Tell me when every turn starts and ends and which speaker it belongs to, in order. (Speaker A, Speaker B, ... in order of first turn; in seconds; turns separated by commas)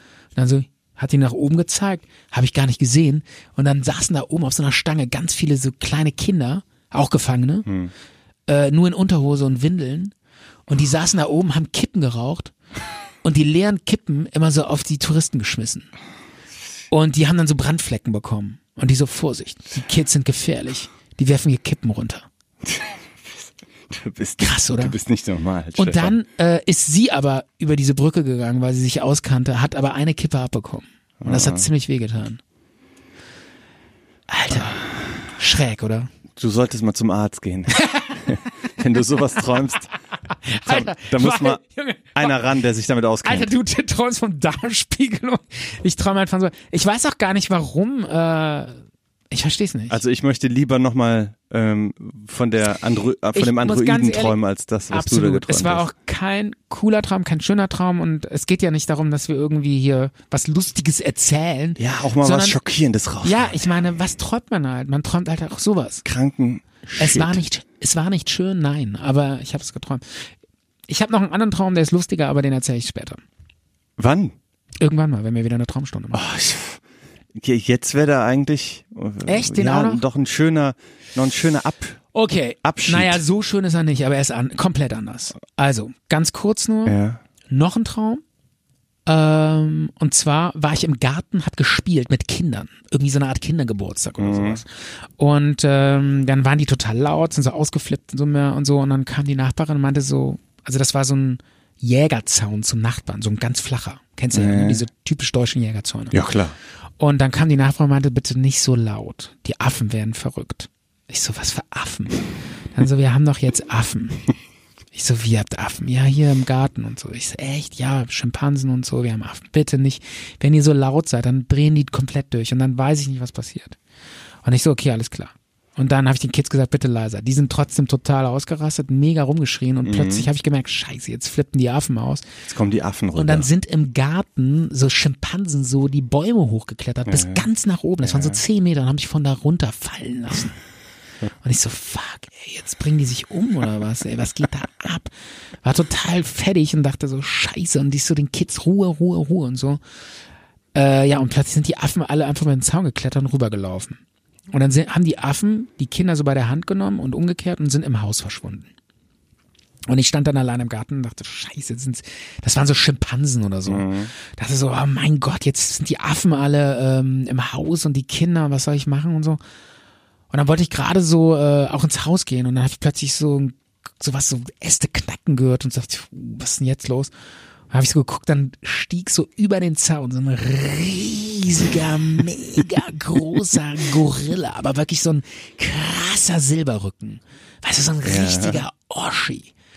Speaker A: 0.3-7.7, Speaker B: 7.7-7.9, Speaker A: 8.5-10.1, Speaker A: 10.7-12.5, Speaker A: 13.2-15.9, Speaker A: 16.9-22.3, Speaker B: 22.6-26.1, Speaker A: 24.4-25.0, Speaker A: 25.8-32.4, Speaker B: 31.2-31.7, Speaker A: 34.3-36.1, Speaker B: 36.4-39.9, Speaker A: 37.8-38.1, Speaker A: 40.4-42.4, Speaker B: 40.6-41.6, Speaker B: 42.1-43.5, Speaker A: 43.2-48.8, Speaker A: 49.3-50.0, Speaker B: 49.9-55.9, Speaker A: 53.3-54.4, Speaker A: 54.9-62.6, Speaker B: 61.8-63.6, Speaker A: 63.2-66.0, Speaker B: 66.0-67.4, Speaker A: 67.0-70.3, Speaker A: 70.9-73.2, Speaker B: 74.0-74.4, Speaker A: 74.8-76.2, Speaker B: 76.1-76.8, Speaker B: 77.3-82.0, Speaker A: 79.2-80.0, Speaker A: 82.1-87.0, Speaker B: 82.6-83.2, Speaker B: 86.9-87.2, Speaker A: 87.5-88.2, Speaker A: 89.0-106.2, Speaker B: 94.2-94.6, Speaker B: 104.3-104.8, Speaker B: 106.1-106.5, Speaker A: 107.0-114.3, Speaker A: 114.9-123.8, Speaker A: 124.4-132.3, Speaker B: 129.8-130.3, Speaker B: 132.5-133.5, Speaker A: 133.2-140.6, Speaker B: 137.1-137.4, Speaker B: 138.0-138.4, Speaker A: 141.4-149.8, Speaker A: 150.7-154.0, Speaker A: 154.5-158.7, Speaker A: 159.9-169.4, Speaker B: 163.7-164.1, Speaker A: 170.3-177.1, Speaker A: 177.7-189.5, Speaker B: 188.1-188.6